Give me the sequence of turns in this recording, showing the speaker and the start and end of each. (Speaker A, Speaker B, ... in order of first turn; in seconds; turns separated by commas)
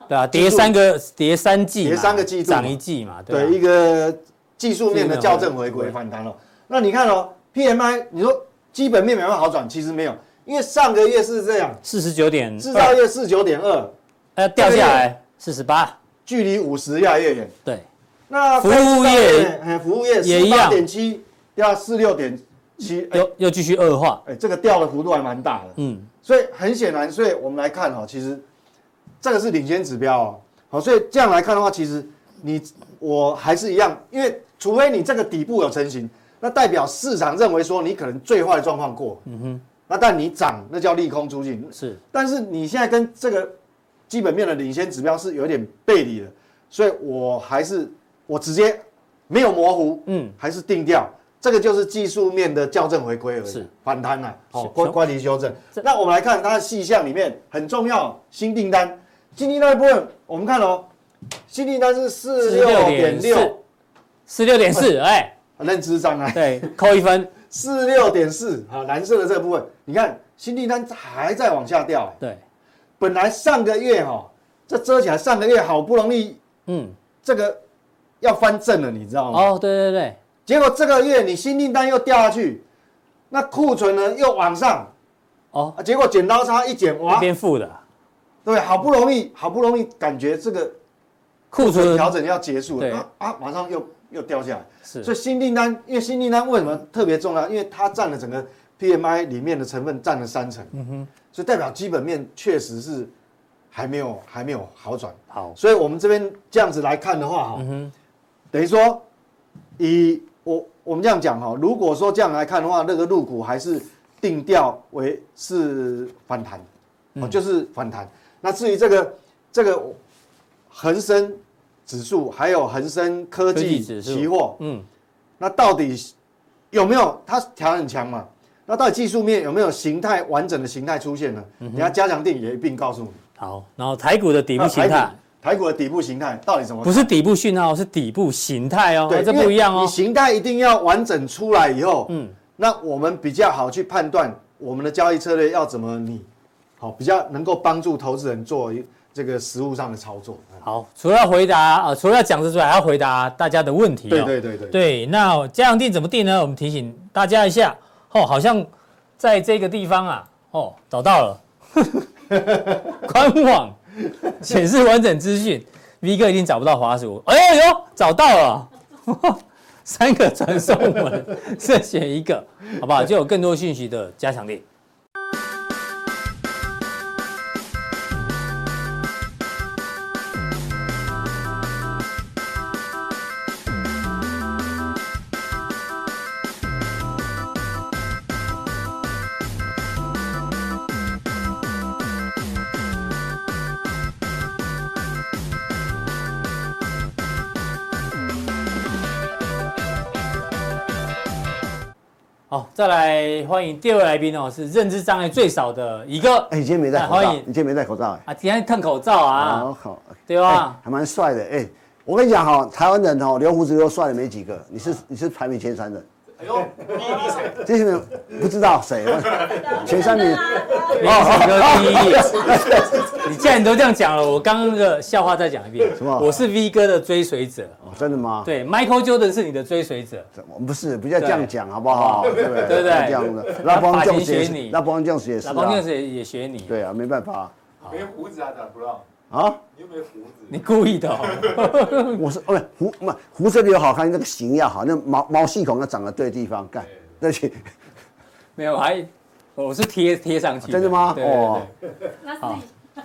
Speaker A: 0.1-3.6, Speaker B: 0.3-0.7, Speaker B: 1.8-2.8, Speaker B: 3.3-11.8, Speaker A: 4.9-6.0, Speaker A: 11.8-13.0, Speaker B: 12.6-13.9, Speaker A: 14.4-16.0, Speaker B: 14.6-15.1, Speaker B: 16.2-17.5, Speaker B: 18.3-23.3, Speaker A: 18.6-19.5, Speaker A: 20.2-20.8, Speaker A: 23.1-24.2, Speaker B: 24.2-28.4, Speaker A: 25.8-26.1, Speaker B: 29.2-39.2, Speaker A: 39.3-39.6, Speaker B: 39.9-43.5, Speaker B: 44.1-60.9, Speaker A: 50.1-50.4, Speaker A: 54.6-55.0, Speaker B: 61.5-63.6, Speaker A: 62.4-63.5, Speaker A: 64.3-65.3, Speaker B: 65.6-66.7, Speaker A: 66.3-67.3, Speaker B: 67.4-72.2, Speaker B: 73.0-76.4, Speaker A: 76.7-77.0, Speaker B: 77.2-77.6, Speaker B: 78.2-79.5, Speaker A: 79.3-80.2, Speaker B: 80.5-82.6, Speaker B: 83.3-84.9, Speaker B: 85.8-87.3, Speaker A: 87.1-87.8, Speaker B: 88.5-90.8, Speaker A: 91.5-92.2, Speaker B: 91.6-100.7, Speaker A: 92.8-93.0, Speaker A: 94.9-95.1, Speaker A: 100.7-101.1, Speaker B: 101.3-103.1, Speaker B: 103.7-107.7, Speaker A: 105.3-105.6, Speaker A: 107.6-107.9, Speaker B: 108.5-109.0, Speaker B: 109.8-116.7, Speaker B: 117.2-120.0, Speaker B: 120.7-124.6, Speaker A: 123.5-124.9, Speaker B: 125.4-126.1, Speaker B: 126.7-133.2, Speaker A: 131.6-131.9, Speaker A: 133.4-135.2, Speaker B: 134.6-137.1, Speaker A: 136.8-139.9, Speaker B: 139.1-146.3, Speaker A: 142.1-142.4, Speaker B: 146.8-150.6, Speaker A: 150.6-162.1, Speaker B: 154.1-154.8, Speaker A: 162.9-174.6, Speaker A: 202.5-207.5, Speaker C: 206.5-208.2, Speaker A: 208.3-209.7, Speaker C: 209.3-216.1, Speaker A: 210.3-210.8, Speaker D: 216.4-217.6, Speaker C: 217.6-223.1, Speaker D: 219.3-219.6, Speaker E: 219.4-221.2, Speaker D: 220.7-221.0, Speaker A: 221.0-227.8, Speaker C: 225.9-226.4, Speaker C: 227.8-228.5, Speaker A: 228.4-230.3, Speaker C: 230.4-235.8, Speaker A: 231.2-234.8, Speaker D: 232.3-232.9, Speaker A: 235.4-236.8, Speaker C: 236.7-237.6, Speaker D: 237.8-239.1, Speaker C: 239.3-239.6, Speaker D: 239.7-240.6, Speaker A: 240.5-242.2, Speaker D: 241.2-241.8, Speaker C: 242.2-247.7, Speaker A: 248.6-251.7, Speaker C: 250.7-251.7, Speaker E: 252.2-252.7